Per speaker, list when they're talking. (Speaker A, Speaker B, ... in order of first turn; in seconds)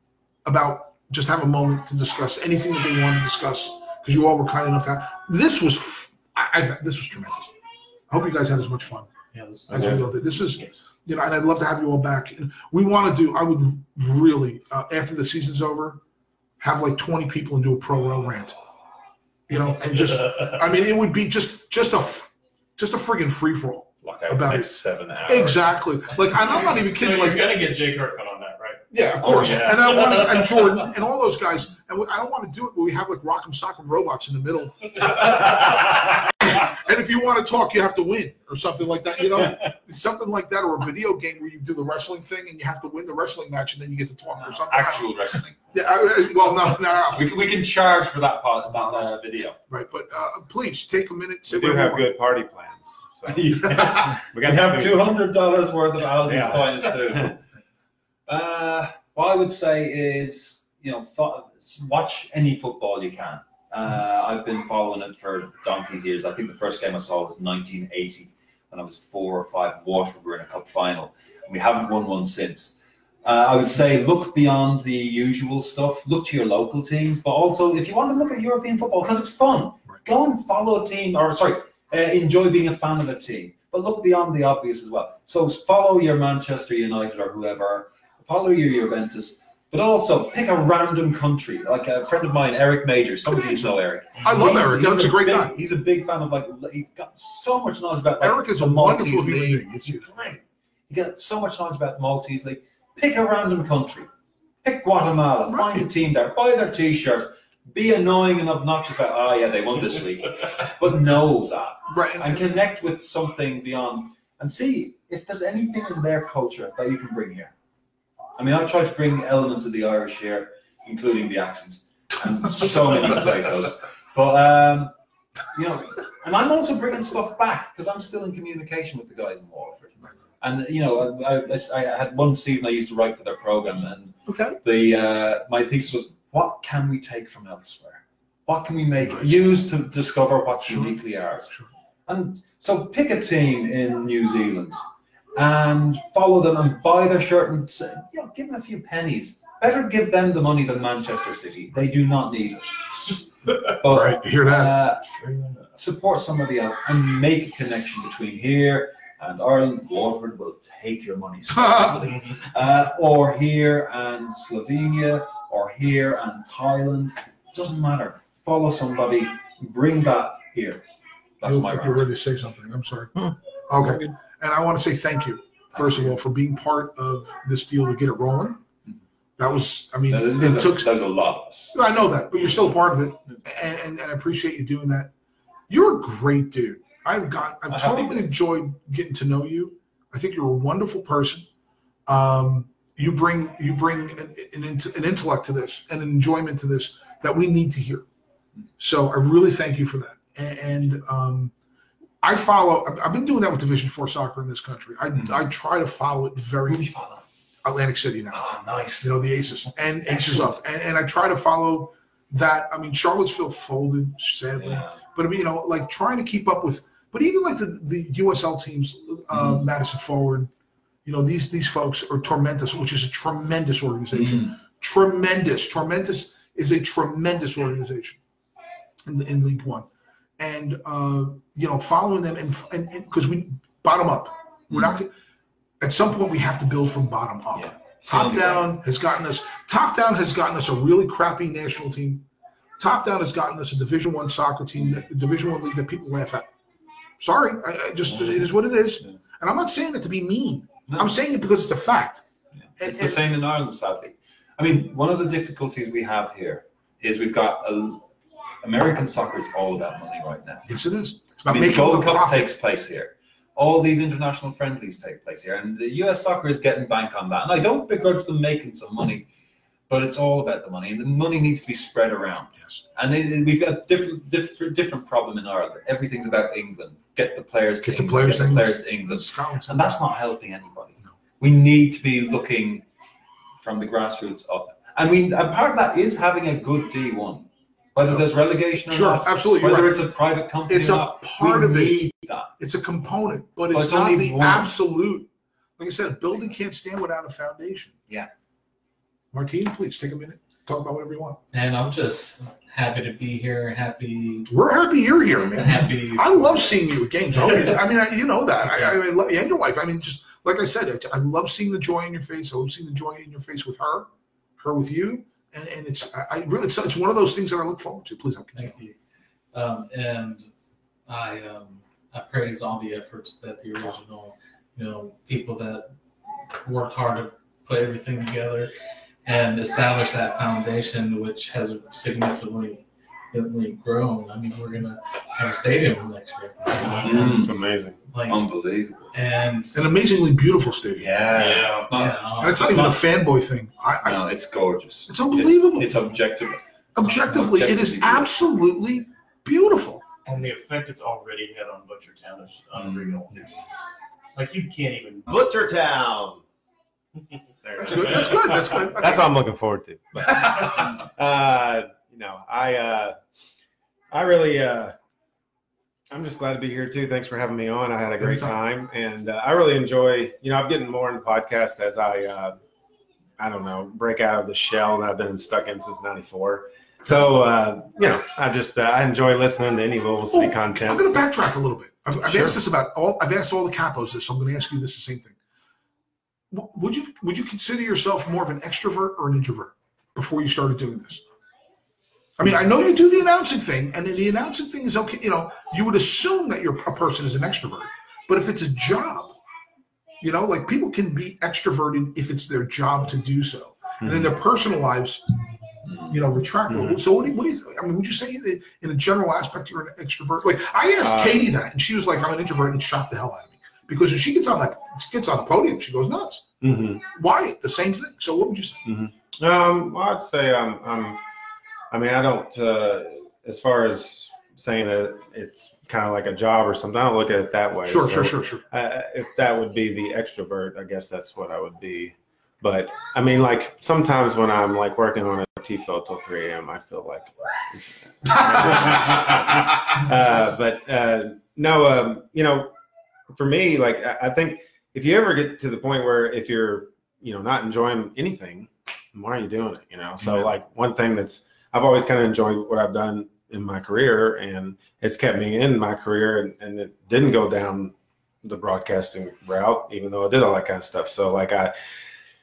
Speaker A: 0.4-7.5, 8.1-9.1, 9.7-16.0, 16.6-18.6, 19.5-24.7, 25.2-27.6, 28.9-35.7, 36.4-45.1, 45.7-47.3, 48.7-49.1, 49.7-52.0, 93.2-95.5, 98.2-100.1, 105.5-105.9, 111.9-112.4, 134.2-134.6, 139.0-139.5, 140.6-141.0, 153.8-154.7, 161.5-161.9, 171.4-178.6, 179.4-180.9, 181.7-185.1, 185.7-191.4, 192.1-198.1, 198.8-201.5, 202.2-206.8, 207.6-208.4, 209.0-220.5, 221.0-228.2, 229.0-229.8, 230.4-235.1, 235.8-242.2, 242.8-246.5, 247.2-252.2, 252.8-253.2, 260.7-262.5, 277.8-280.0, 288.9-290.0, 290.7-292.0, 292.6-297.9, 299.3-301.4, 304.5-314.1, 314.6-318.8, 339.7-341.1, 342.4-344.2, 345.1-346.0, 346.9-350.0, 357.8-359.3, 368.2-368.6, 380.3-385.4, 386.5-391.2, 392.4-399.4, 400.2-405.3, 406.1-416.5, 417.0-418.8, 427.8-428.6
Speaker B: 9.3-10.2, 301.5-304.5, 305.5-306.8, 307.4-307.7, 318.5-318.9, 319.5-320.5, 321.1-325.9, 326.6-328.7, 329.2-337.5, 338.1-338.4, 339.1-339.8, 341.9-342.9
Speaker C: 10.6-10.8, 26.4-30.2, 94.2-94.4, 155.2-155.6, 162.0-162.4, 341.3-341.9, 350.2-353.4, 354.3-355.4, 357.6-358.4
Speaker D: 24.0-25.8, 29.3-30.4, 35.5-35.8, 39.4-39.7, 44.4-45.6, 47.1-49.6, 53.2-57.4, 58.3-104.1, 104.6-117.5, 118.4-124.9, 125.5-144.8, 145.3-155.2, 155.7-170.8, 171.4-172.1, 175.7-176.2, 180.1-181.8, 182.3-182.8, 187.7-188.4, 205.1-205.5, 206.7-207.2, 208.3-209.1, 210.1-210.5, 214.6-215.0, 219.3-219.7, 224.1-224.5, 234.7-235.0, 237.5-238.7, 244.8-245.1, 248.1-249.2, 252.8-258.0, 258.6-260.7, 261.5-269.2, 269.9-282.9, 283.6-292.5, 293.7-294.7, 336.9-337.5, 338.3-339.1, 340.9-342.9, 344.0-348.3, 352.8-353.2, 405.8-406.2
Speaker E: 51.5-55.1, 56.2-57.3, 337.2-338.0, 355.3-356.4, 357.9-363.1, 364.1-364.9, 366.1-372.6, 373.4-381.2, 382.2-382.6, 404.0-404.3, 406.7-407.0, 411.0-411.5, 416.6-417.0, 418.8-421.2, 421.9-442.7, 443.3-457.9, 458.4-461.8